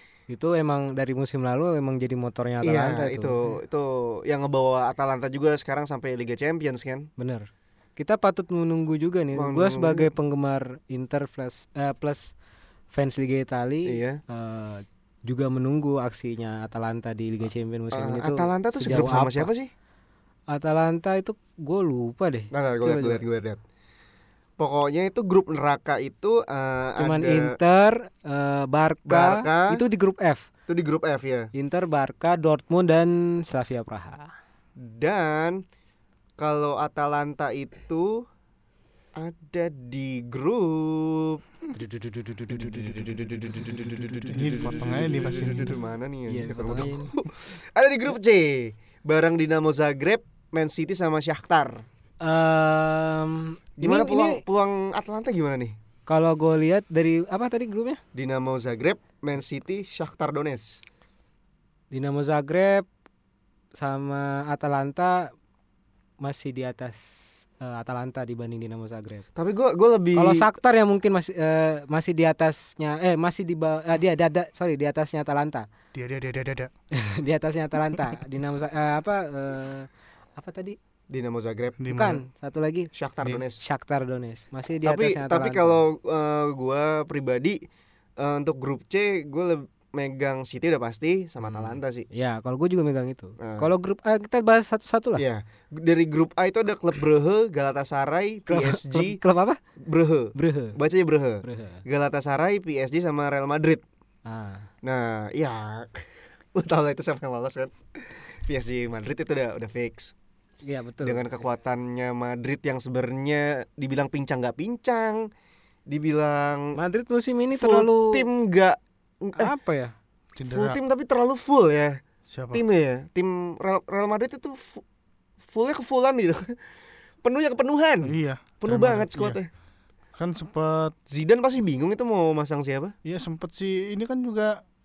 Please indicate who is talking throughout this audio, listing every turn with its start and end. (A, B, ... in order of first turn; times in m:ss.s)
0:00.3-0:03.4 A
0:02.6-0:07.1 B
0:07.2-0:12.3 A
0:09.4-0:10.1 B
0:12.9-0:19.5 A
0:13.9-0:14.2 B
0:17.9-0:19.7 B
0:20.5-0:23.2 A
0:22.5-0:23.6 B
0:24.6-0:27.6 B
0:27.0-0:30.5 A
0:29.1-0:29.8 B
0:30.7-0:31.5 B
0:31.5-0:34.3 A
0:34.8-0:35.6 B
0:36.4-0:38.3 B
0:39.2-0:41.4 B
0:41.7-0:44.7 A
0:42.7-0:51.8 B
0:44.3-0:45.8 C
0:46.3-0:47.1 A
0:52.2-0:54.4 A
0:53.8-0:55.8 B
0:56.1-0:58.0 A
0:58.2-1:00.8 B
1:01.9-1:02.9 A
1:03.8-1:05.3 A
1:06.2-1:07.0 A
1:07.6-1:09.2 A
1:09.4-1:10.4 B
1:10.2-1:15.7 A
1:15.9-1:16.7 C
1:17.0-1:20.8 A
1:21.1-1:21.8 B
1:21.8-1:22.2 C
1:21.9-1:22.9 A
1:22.9-1:23.6 B
1:23.6-1:25.8 A
1:24.8-1:27.6 B
1:28.2-1:32.1 B
1:31.4-1:35.2 A
1:33.4-1:33.7 B
1:35.2-1:39.2 B
1:38.5-1:39.6 A
1:39.8-1:43.8 B
1:40.4-1:40.8 A
1:41.4-1:41.8 A
1:44.3-1:44.7 A
1:44.8-1:50.1 B
1:50.6-1:51.3 A
1:51.0-1:55.3 B
1:55.9-1:56.8 B
1:56.8-1:58.3 A
1:57.6-1:59.5 B
1:59.4-1:59.9 A
2:00.4-2:00.8 C
2:00.4-2:02.0 B
2:02.3-2:02.6 C
2:02.5-2:04.8 B
2:05.5-2:06.6 B
2:07.2-2:09.5 B
2:08.0-2:09.4 C
2:10.2-2:10.9 C
2:11.1-2:12.9 B
2:13.0-2:14.6 C